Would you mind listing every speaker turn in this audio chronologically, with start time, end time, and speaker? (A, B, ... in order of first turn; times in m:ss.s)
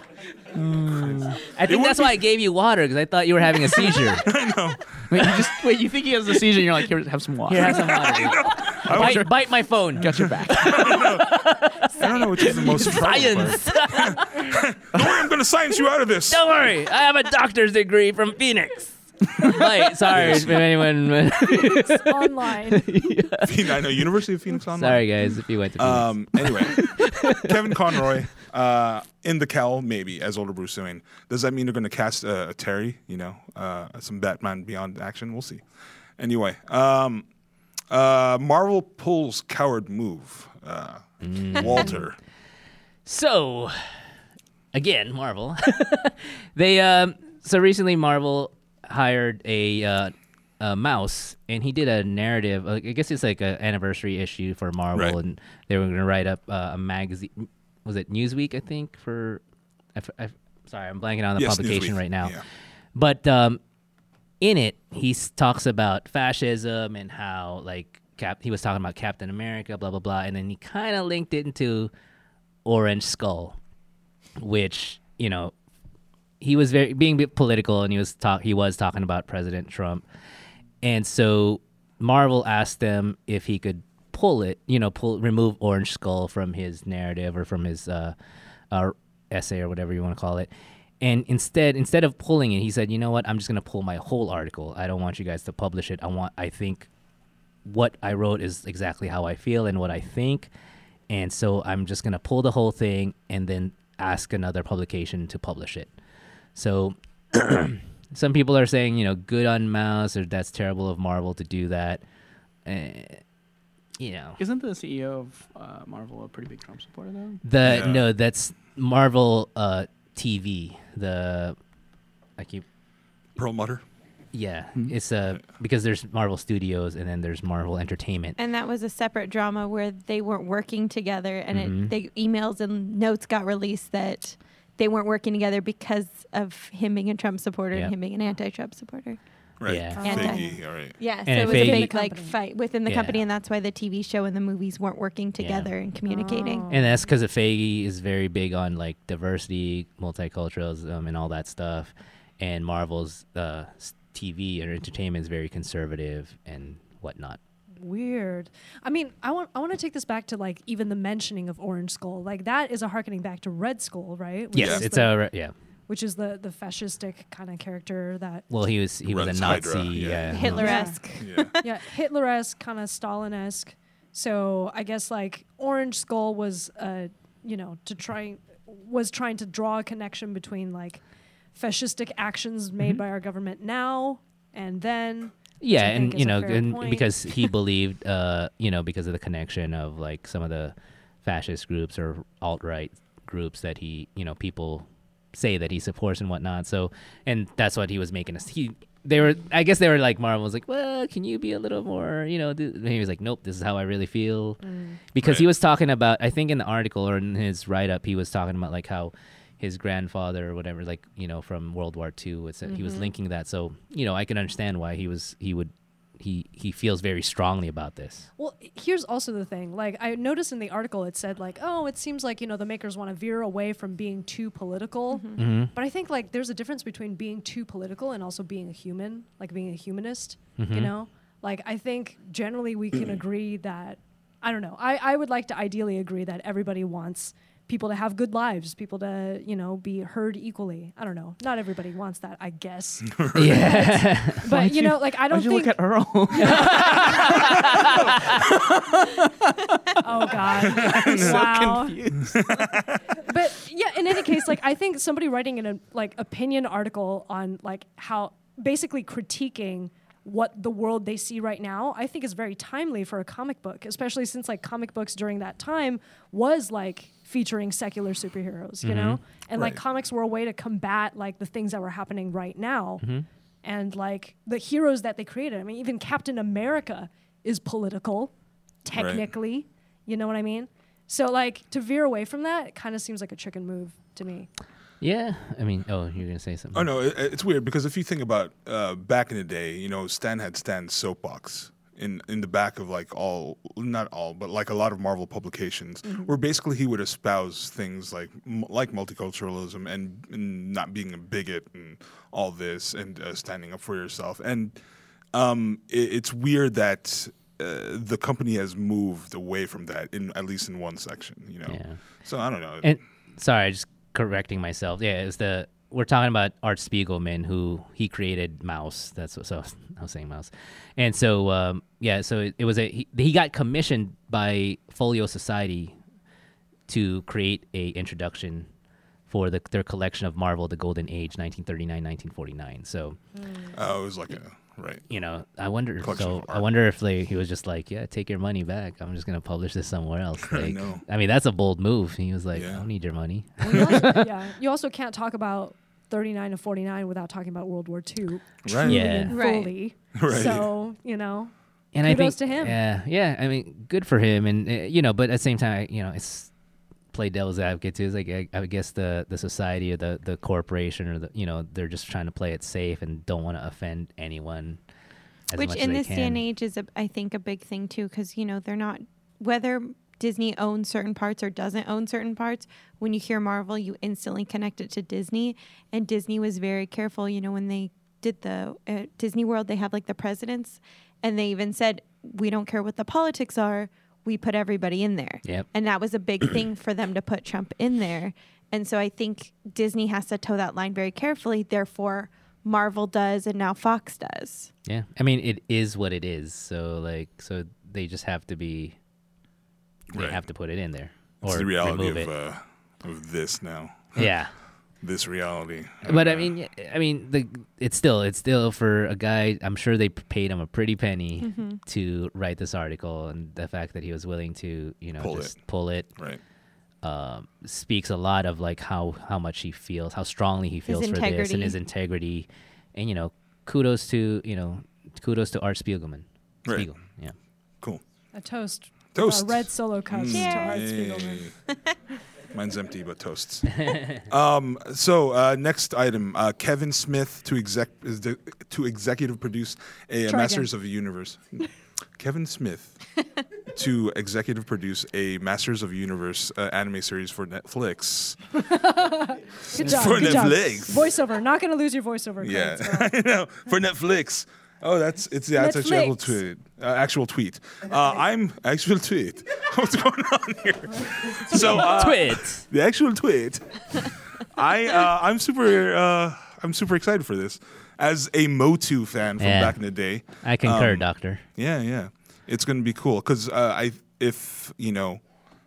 0:00.6-0:04.2 A
0:01.0-0:02.2 B
0:03.6-0:05.6 B
0:05.1-0:08.1 C
0:07.5-0:14.6 A
0:07.6-0:09.3 B
0:08.9-0:09.3 C
0:10.0-0:10.9 C
0:10.5-0:16.4 B
0:16.3-0:24.0 A
0:20.1-0:20.7 B
0:21.5-0:22.9 D
0:23.4-0:25.1 B
0:24.7-0:27.8 A
0:25.8-0:35.6 B
0:36.2-0:37.2 B
0:37.9-0:42.2 B
0:41.2-0:42.0 A
0:43.0-0:43.8 A
0:44.7-0:59.4 A
0:59.9-1:02.4 A
1:01.4-1:02.4 B
1:02.9-1:03.6 A
1:04.4-1:11.9 A
1:12.6-1:13.6 A
1:14.4-1:15.5 A
1:16.4-1:20.0 A
1:20.8-1:28.1 A
1:28.7-1:30.5 A
1:31.0-1:36.9 A
1:37.6-1:40.5 A
1:41.1-1:45.9 A
1:46.6-1:52.0 A
1:52.6-1:53.2 A
1:54.0-1:54.4 A
1:54.4-1:57.4 C
1:57.4-2:01.6 A
1:57.6-1:58.1 B
2:02.4-2:02.6 A
2:03.4-2:03.8 B
2:04.3-2:08.4 A
2:08.4-2:19.2 E
2:11.5-2:11.9 A
2:19.6-2:21.0 B
2:19.7-2:20.3 A
2:20.0-2:20.6 D
2:20.0-2:26.7 E
2:21.2-2:21.9 A
2:21.3-2:22.4 D
2:22.9-2:23.2 A
2:25.4-2:25.7 A
2:26.1-2:27.0 D
2:26.7-2:37.4 A
2:37.8-2:45.2 D
2:44.5-2:45.5 A
2:44.6-2:44.8 B
2:45.9-2:48.4 D
2:48.5-2:50.8 A
2:49.0-2:51.5 B
2:50.3-2:51.7 E
2:50.5-2:51.0 D
2:51.6-3:01.0 D
3:01.5-3:07.5 D
3:05.6-3:24.6 A
3:24.6-3:25.0 D
3:25.1-3:38.3 A
3:25.2-3:25.5 B
3:32.6-3:33.1 D
3:38.4-4:07.7 D
3:45.1-3:45.4 E
3:45.4-3:45.7 A
3:50.6-3:50.9 A
4:03.0-4:03.6 B
4:03.3-4:04.7 A
4:04.5-4:12.5 C
4:06.4-4:08.1 A
4:10.0-4:12.0 D
4:10.6-4:11.4 B
4:12.2-4:13.0 B
4:13.2-4:33.0 D
4:28.8-4:29.2 A
4:29.5-4:29.8 B
4:33.0-4:33.2 A
4:33.6-4:38.3 D
4:38.8-4:44.5 D
4:38.9-4:39.2 B
4:45.0-4:46.9 A
4:46.7-5:04.8 B
5:05.3-5:12.9 B
5:11.7-5:12.0 A
5:12.8-5:26.0 A
5:26.9-5:28.6 A
5:29.3-5:33.2 A
5:33.4-5:33.7 D
5:33.7-5:35.0 B
5:35.1-5:44.3 A
5:36.0-5:36.7 B
5:40.5-5:41.0 B
5:42.5-5:42.8 B
5:43.6-5:52.8 D
5:48.6-5:49.0 B
5:48.8-5:49.4 A
5:49.3-5:49.7 E
5:50.1-5:50.7 B
5:51.9-5:56.5 A
5:57.1-6:04.8 A
6:05.5-6:06.4 A
6:05.5-6:34.7 E
6:34.8-6:39.0 A
6:40.1-6:42.3 A
6:40.1-6:40.4 B
6:41.4-6:44.3 B
6:44.2-6:44.5 A
6:45.0-6:46.5 B
6:46.0-6:56.1 A
6:51.4-6:51.8 E
6:55.2-6:55.5 B
6:57.0-7:07.3 A
7:00.9-7:01.8 E
7:08.3-7:11.5 D
7:09.1-7:11.5 B
7:10.3-7:10.8 E
7:12.5-7:21.6 B
7:20.3-7:20.7 D
7:22.2-7:23.0 B
7:23.7-7:28.6 B
7:28.6-7:33.1 D
7:29.7-7:31.1 B
7:32.4-7:55.2 B
7:35.5-7:36.3 D
7:41.5-7:42.6 A
7:49.4-7:49.8 A
7:50.4-7:51.4 A